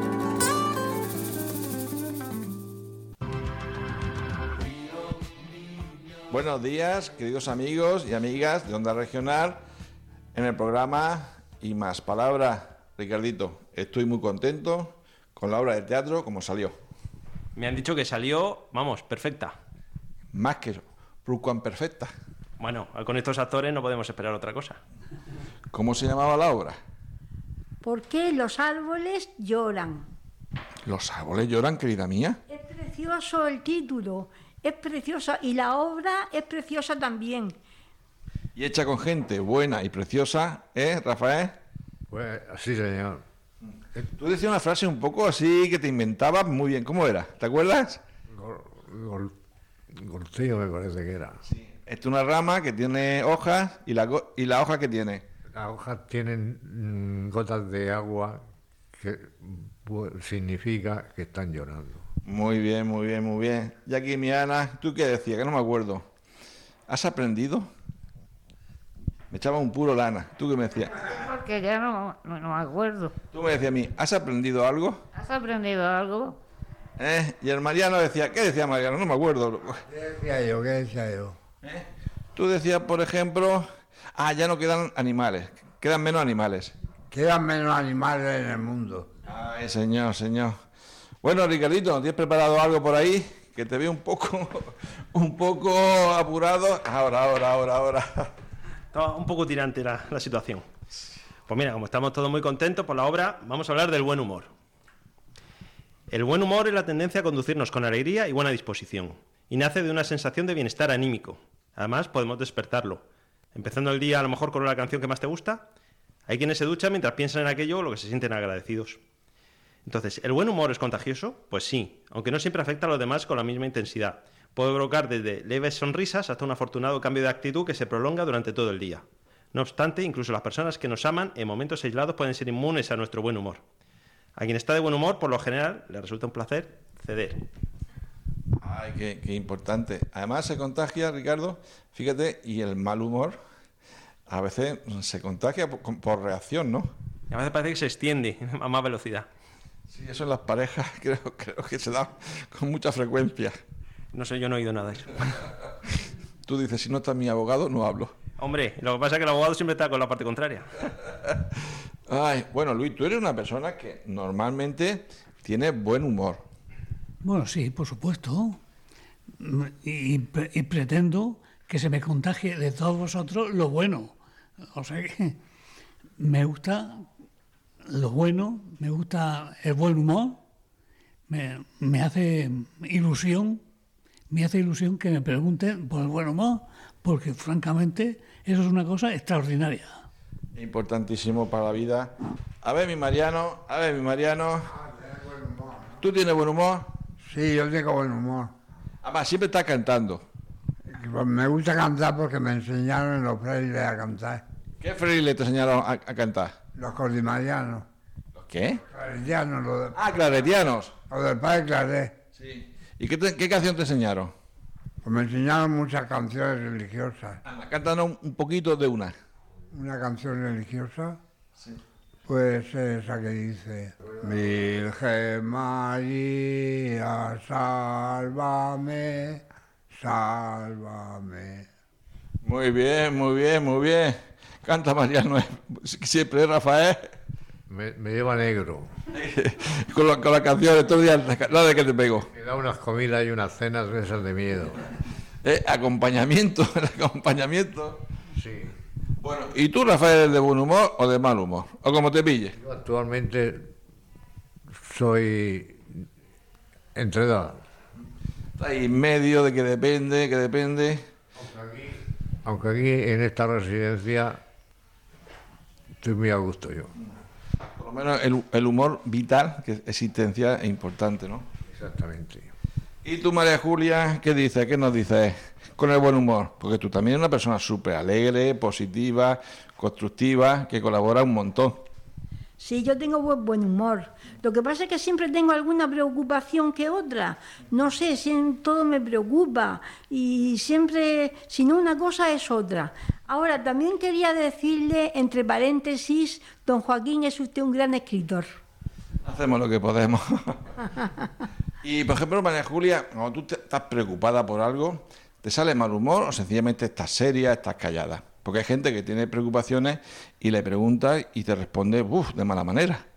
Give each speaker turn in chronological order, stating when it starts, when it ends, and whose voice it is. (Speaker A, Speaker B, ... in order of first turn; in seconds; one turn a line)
Speaker A: 6.3-9.6
Speaker A: 10.3-16.8
Speaker B: 17.6-19.5
Speaker A: 20.3-22.1
Speaker B: 22.6-24.8
Speaker A: 25.7-26.8
Speaker C: 27.8-30.1
Speaker A: 30.9-32.4
Speaker C: 32.5-37.5
Speaker A: 38.5-41.5
Speaker D: 42.1-43.2
Speaker A: 43.7-48.0
Speaker D: 48.3-49.3
Speaker D: 49.9-51.4
Speaker A: 51.5-55.2
Speaker D: 55.5-58.4
Speaker D: 58.9-62.0
Speaker A: 62.2-66.1
Speaker A: 66.9-67.7
Speaker A: 69.3-71.3
Speaker E: 71.2-73.1
Speaker A: 73.3-75.0
Speaker E: 75.1-76.4
Speaker A: 77.0-79.8
Speaker F: 79.9-81.3
Speaker A: 81.6-86.7
Speaker F: 87.1-89.1
Speaker A: 89.2-90.5
Speaker A: 91.2-98.3
Speaker B: 98.9-100.6
Speaker B: 101.5-104.5
Speaker B: 106.1-113.0
Speaker B: 113.5-115.7
Speaker B: 116.3-119.0
Speaker B: 119.8-133.6
Speaker B: 134.4-137.4
Speaker A: 138.6-143.3
Speaker A: 144.3-146.9
Speaker B: 147.3-149.3
Speaker A: 149.9-153.6
Speaker B: 154.1-155.4
Speaker A: 156.5-158.1
Speaker B: 158.4-160.7
Speaker A: 162.1-166.4
Speaker G: 167.2-168.6
Speaker G: 169.4-174.2
Speaker G: 174.7-175.4
Speaker G: 176.2-177.1
Speaker G: 177.9-180.4
Speaker G: 181.3-183.6
Speaker G: 184.3-190.0
Speaker A: 190.5-194.7
Speaker F: 194.7-196.0
Speaker A: 196.0-196.9
Speaker F: 197.2-198.5
Speaker A: 199.0-200.2
Speaker F: 200.9-204.4
Speaker A: 204.8-206.5
Speaker F: 206.8-207.8
Speaker A: 208.3-208.8
Speaker F: 208.8-210.0
Speaker A: 209.9-210.9
Speaker F: 211.1-212.2
Speaker A: 212.3-214.3
Speaker F: 215.0-217.4
Speaker A: 217.4-219.1
Speaker F: 219.7-221.2
Speaker F: 222.2-231.7
Speaker A: 232.4-237.1
Speaker D: 237.7-238.9
Speaker A: 239.1-242.3
Speaker D: 242.3-244.8
Speaker A: 245.4-248.0
Speaker D: 248.3-248.7
Speaker A: 249.2-252.6
Speaker D: 252.6-253.7
Speaker D: 254.8-256.1
Speaker D: 256.9-257.6
Speaker A: 258.6-261.0
Speaker D: 261.4-264.4
Speaker D: 266.0-266.9
Speaker A: 267.8-271.4
Speaker D: 271.7-272.5
Speaker A: 273.1-281.8
Speaker C: 282.6-298.5
Speaker A: 299.2-300.6
Speaker A: 301.8-313.0